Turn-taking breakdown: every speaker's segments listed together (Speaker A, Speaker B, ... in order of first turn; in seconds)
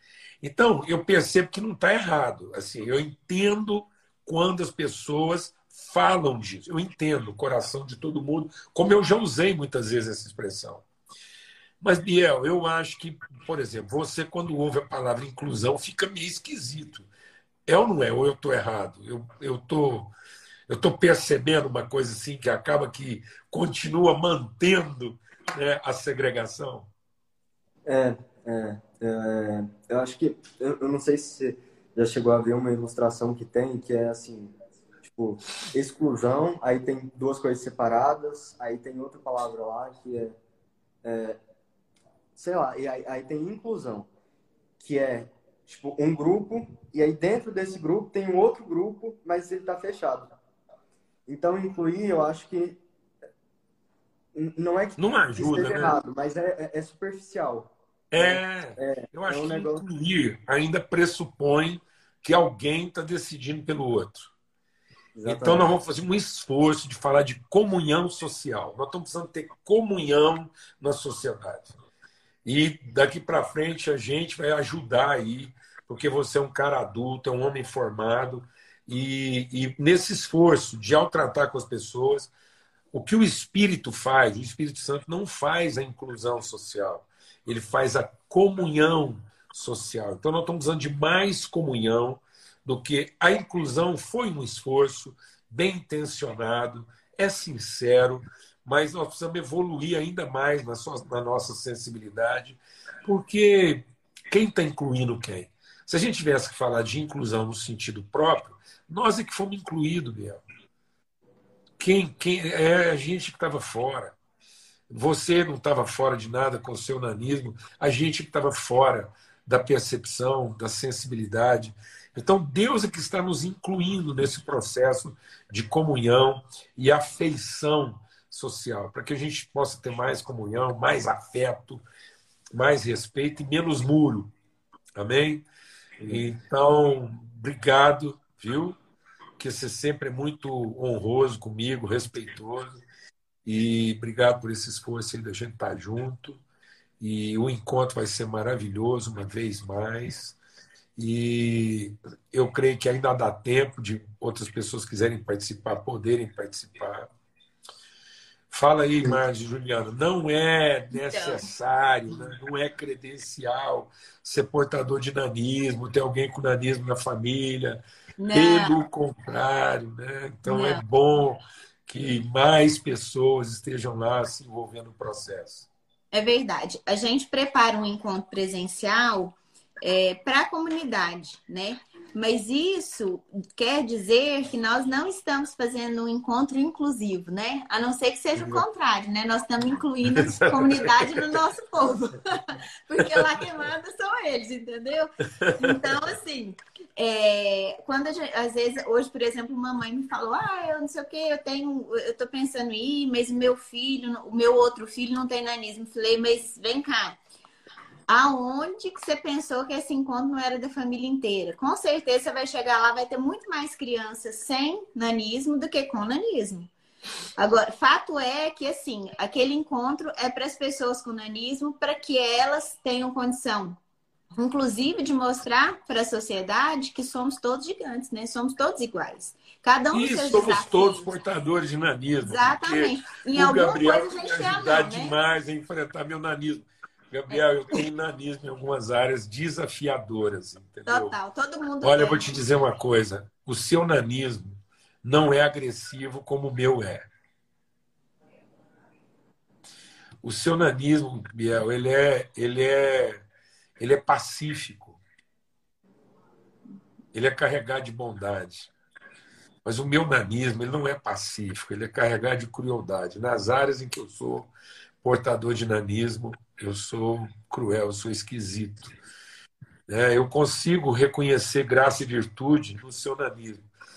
Speaker A: 0.4-10.8, 11.8-17.1, 17.7-20.1, 20.7-26.9, 55.0-56.0, 58.1-64.3, 65.2-71.8, 72.5-82.3, 82.9-110.4, 111.8-114.2, 114.9-131.8, 132.5-134.3, 135.0-135.4, 136.1-138.8, 139.4-142.8, 143.4-146.4, 147.0-150.4, 151.0-157.1, 158.5-167.8, 168.3-175.7, 188.4-188.6, 190.1-191.4, 195.4-195.8, 229.9-241.2, 241.8-247.1, 250.2-253.2, 253.8-255.0, 257.1-258.7, 259.6-264.5, 265.0-268.9, 269.9-273.6
Speaker B: 27.9-40.4, 41.0-41.4, 42.4-44.1, 44.8-50.3, 51.3-52.8, 54.3-59.9, 65.2-65.7
Speaker C: 161.1-161.5, 168.2-168.7, 170.5-170.8, 176.1-207.2, 208.1-216.7, 217.4-223.8, 224.4-231.1, 232.2-235.1, 240.9-242.3